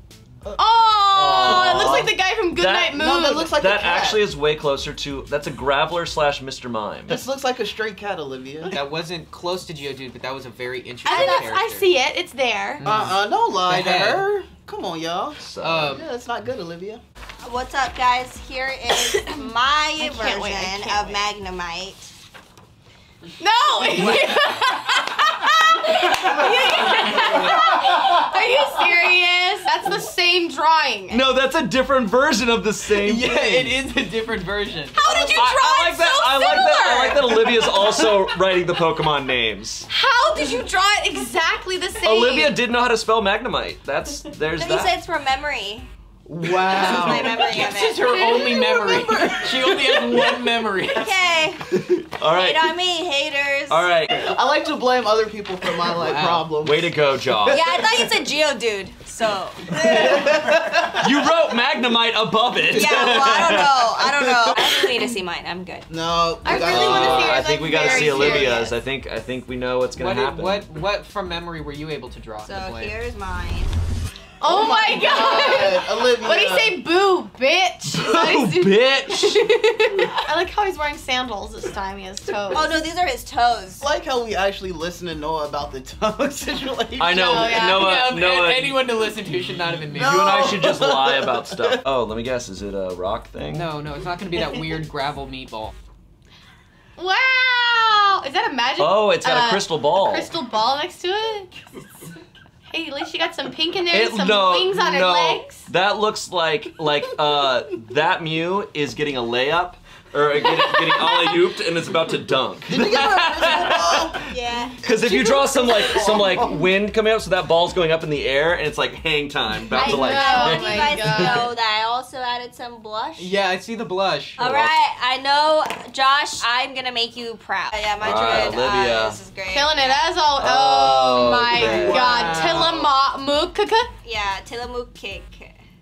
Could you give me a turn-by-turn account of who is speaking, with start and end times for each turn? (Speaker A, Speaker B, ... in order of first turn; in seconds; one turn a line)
Speaker A: 0.6-3.6
Speaker B: 1.1-3.0
Speaker C: 2.9-4.2
Speaker B: 3.5-7.2
Speaker C: 7.1-8.8
Speaker D: 8.7-11.9
Speaker A: 11.0-12.8
Speaker D: 12.8-14.3
Speaker C: 12.8-17.0
Speaker B: 15.4-16.0
Speaker D: 15.6-16.1
Speaker E: 17.4-22.1
Speaker A: 18.9-21.2
Speaker A: 23.4-31.3
Speaker E: 27.0-27.4
Speaker B: 31.1-33.8
Speaker D: 32.9-35.0
Speaker A: 35.0-37.9
Speaker C: 35.0-35.5
Speaker B: 35.3-39.9
Speaker A: 39.9-42.6
Speaker B: 42.0-45.0
Speaker E: 44.6-45.9
Speaker C: 46.3-47.5
Speaker B: 46.7-47.4
Speaker E: 46.7-48.1
Speaker D: 46.8-51.4
Speaker A: 48.0-49.0
Speaker C: 48.7-50.3
Speaker E: 50.9-51.7
Speaker B: 51.7-52.8
Speaker E: 52.3-53.9
Speaker B: 53.7-54.3
Speaker C: 54.2-56.9
Speaker D: 56.0-56.5
Speaker B: 56.6-57.8
Speaker E: 57.5-60.3
Speaker C: 57.5-57.8
Speaker B: 59.7-60.2
Speaker C: 59.8-61.1
Speaker B: 61.0-64.1
Speaker E: 62.7-65.9
Speaker C: 65.9-67.4
Speaker A: 66.5-68.7
Speaker B: 66.5-70.7
Speaker D: 69.9-73.0
Speaker E: 72.4-73.7
Speaker A: 74.4-82.8
Speaker C: 74.4-76.8
Speaker B: 77.8-80.1
Speaker E: 82.5-83.9
Speaker C: 83.8-87.4
Speaker B: 87.0-88.8
Speaker A: 87.1-87.9
Speaker D: 87.7-90.6
Speaker C: 89.9-91.8
Speaker B: 89.9-93.8
Speaker D: 93.5-95.7
Speaker C: 94.5-94.7
Speaker A: 97.0-101.5
Speaker B: 98.8-100.3
Speaker A: 102.7-105.7
Speaker B: 103.9-114.2
Speaker C: 112.7-114.2
Speaker E: 114.2-114.8
Speaker B: 114.8-121.5
Speaker C: 114.9-116.5
Speaker A: 119.7-121.5
Speaker E: 119.8-123.3
Speaker D: 123.2-124.5
Speaker E: 124.4-130.1
Speaker B: 124.4-124.8
Speaker B: 128.0-129.2
Speaker A: 129.5-133.9
Speaker B: 130.4-132.8
Speaker D: 131.5-132.8
Speaker E: 134.0-135.6